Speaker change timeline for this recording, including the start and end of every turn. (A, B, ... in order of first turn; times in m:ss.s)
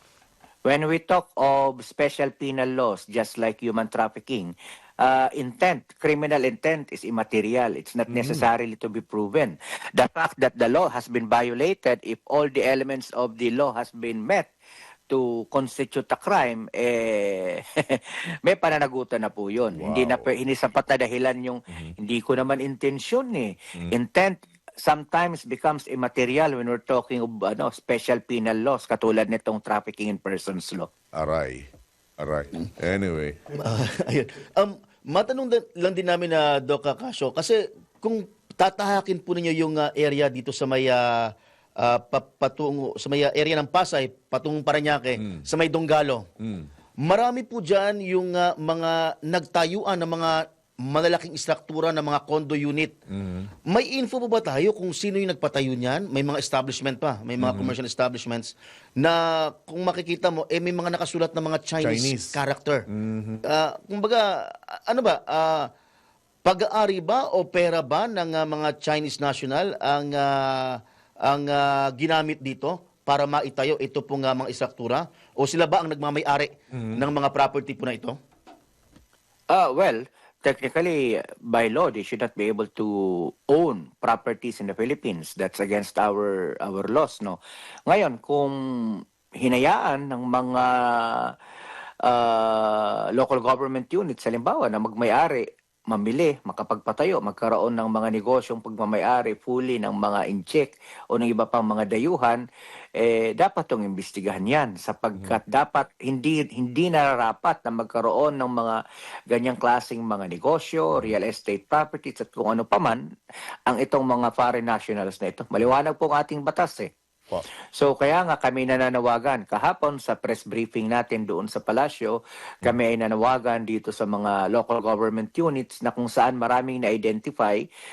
0:00.6-0:14.5 A
0:08.1-0:08.4 B
0:15.1-0:30.9 A
0:19.7-0:20.3 B
0:31.2-0:31.7 B
0:32.2-0:33.4 B
0:33.5-0:46.3 C
0:46.4-0:46.7 B
0:47.0-0:53.0 C
0:53.1-0:53.5 B
0:53.7-1:02.8 C
0:57.4-0:57.8 B
1:01.8-1:02.4 B
1:02.9-1:03.4 B
1:03.4-1:05.7 C
1:06.4-1:18.2 C
1:16.7-1:17.0 B
1:19.5-1:31.3 A
1:32.0-1:42.4 A
1:43.0-1:48.8 A
1:49.3-1:53.0 A
1:53.7-1:56.9 A
1:57.7-2:07.6 A